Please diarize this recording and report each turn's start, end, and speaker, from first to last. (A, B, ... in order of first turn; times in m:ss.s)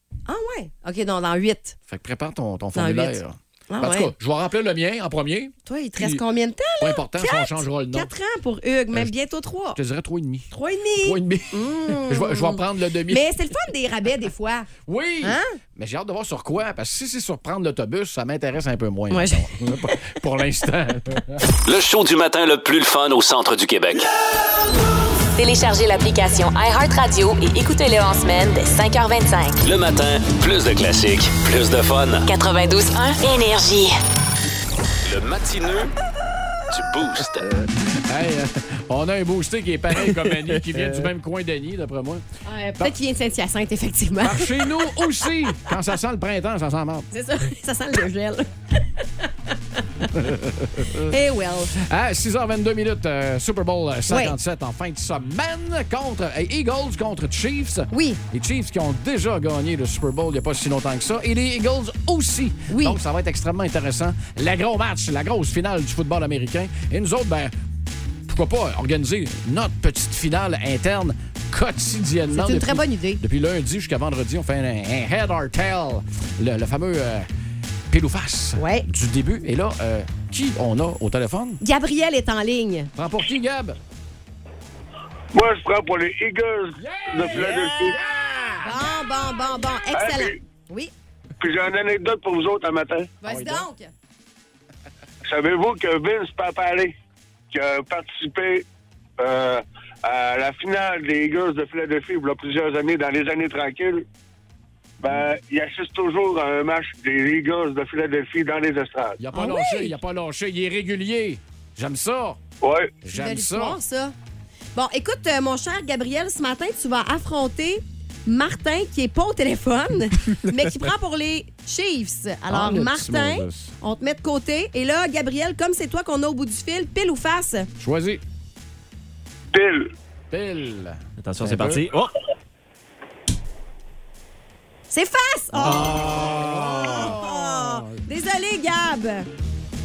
0:00.3-0:01.8 A
0:01.9-0:06.2 B
0:02.7-0:03.2 A
0:03.7-0:04.1 A
0:05.6-0:09.8 A
0:06.8-0:08.1 B
0:09.7-0:10.5 B
0:10.5-0:14.7 A
0:11.0-0:13.2 B
0:14.8-0:21.4 B
0:15.2-0:15.6 A
0:19.1-0:19.4 A
0:21.6-0:24.1 C
0:25.4-0:29.6 D
0:29.6-0:32.3 C
0:32.3-0:34.0 D
0:35.0-0:35.9 C
0:36.7-0:37.5 C
0:37.8-0:42.2 B
0:42.4-0:45.1 A
0:44.2-0:47.1 B
0:47.1-0:48.5 A
0:49.0-0:49.5 A
0:50.1-0:51.1 B
0:51.1-0:51.7 A
0:51.7-1:07.5 B
0:54.1-0:54.4 A
0:57.9-0:58.2 A
1:02.7-1:03.0 A
1:08.3-1:17.3 B
1:12.3-1:13.2 A
1:17.9-1:21.6 B
1:18.6-1:18.8 A
1:21.6-1:22.9 A
1:23.0-1:23.8 B
1:25.3-1:28.0 E
1:26.8-1:28.7 B
1:28.6-1:30.9 A
1:29.9-1:30.4 E
1:31.4-1:33.1 E
1:33.2-1:33.9 A
1:33.2-1:33.6 B
1:35.2-1:36.9 E
1:37.5-1:38.6 E
1:39.2-1:44.0 E
1:45.0-1:49.2 E
1:49.2-1:52.4 B
1:49.3-1:49.9 A
1:52.6-1:52.9 E
1:53.0-1:53.8 B
1:53.1-1:54.1 A
1:54.7-2:07.7 A
2:02.5-2:03.8 B
2:07.8-2:08.2 B
2:09.5-2:09.9 E
2:10.3-2:11.9 B
2:11.2-2:12.1 F
2:14.9-2:16.1 A
2:15.6-2:18.0 B
2:15.6-2:16.9 F
2:16.8-2:19.3 A